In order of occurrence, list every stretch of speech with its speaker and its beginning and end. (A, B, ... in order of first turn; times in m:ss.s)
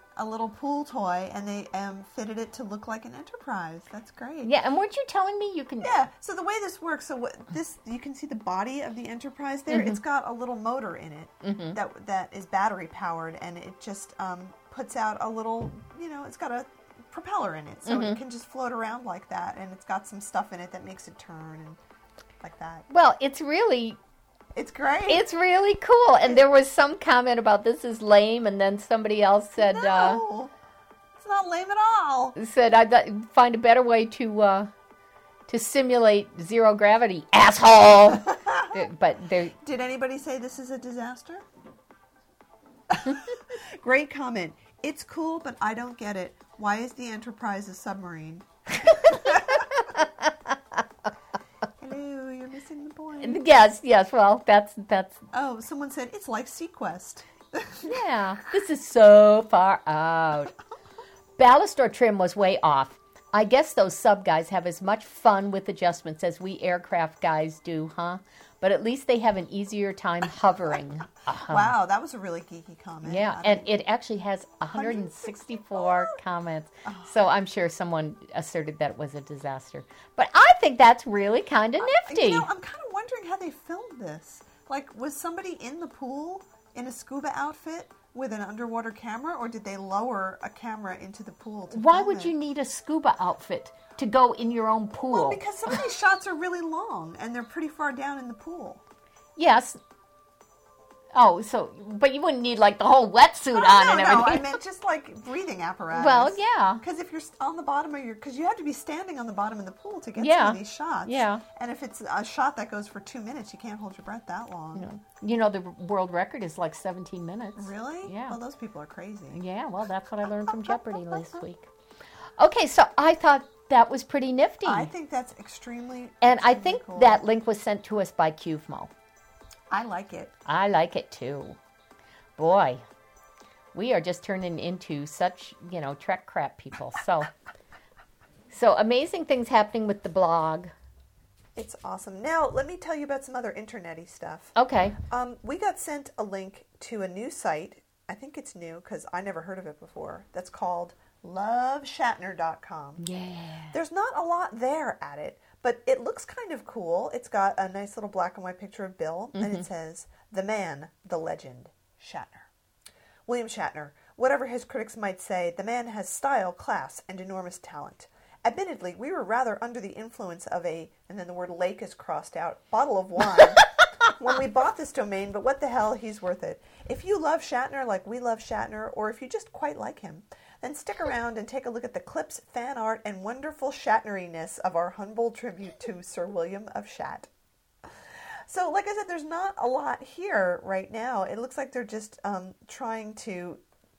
0:00.2-0:04.5 A
0:04.4-0:06.0 B
0:05.8-0:21.8 A
0:09.7-0:10.0 B
0:11.4-0:11.8 B
0:17.9-0:18.2 B
0:22.4-0:22.9 A
0:22.9-0:24.0 B
0:24.5-0:25.3 A
0:25.1-0:30.2 B
0:29.6-0:30.5 A
0:31.2-0:32.4 A
0:32.4-0:34.7 B
0:35.5-0:39.6 B
0:38.3-0:38.8 A
0:39.6-0:41.4 A
0:42.9-0:49.9 A
0:49.1-0:49.4 B
0:51.8-0:53.4 A
0:53.2-0:55.3 B
0:55.3-0:58.0 A
0:57.8-1:00.5 B
1:01.4-1:11.8 B
1:11.5-1:13.7 A
1:13.0-1:22.5 B
1:14.7-1:16.2 A
1:16.8-1:17.2 A
1:21.8-1:32.4 A
1:31.7-1:35.4 B
1:35.1-1:38.8 A
1:39.4-1:39.8 B
1:41.1-1:44.6 B
1:43.5-1:54.9 A
1:45.9-1:46.8 B
1:50.2-1:51.4 B
1:54.7-1:58.4 B
1:57.6-1:59.4 A
1:59.3-2:01.7 B
2:00.7-2:01.4 A
2:02.4-2:04.9 B
2:04.6-2:07.2 A
2:06.2-2:08.9 B
2:09.7-2:10.4 A
2:10.5-2:11.6 B
2:12.4-2:12.8 B
2:13.7-2:17.3 B
2:18.5-2:20.7 B
2:21.6-2:33.0 A
2:24.6-2:25.0 B
2:33.0-2:33.8 B
2:33.7-2:42.5 A
2:39.4-2:39.7 B
2:43.3-3:07.3 A
3:08.5-3:13.6 A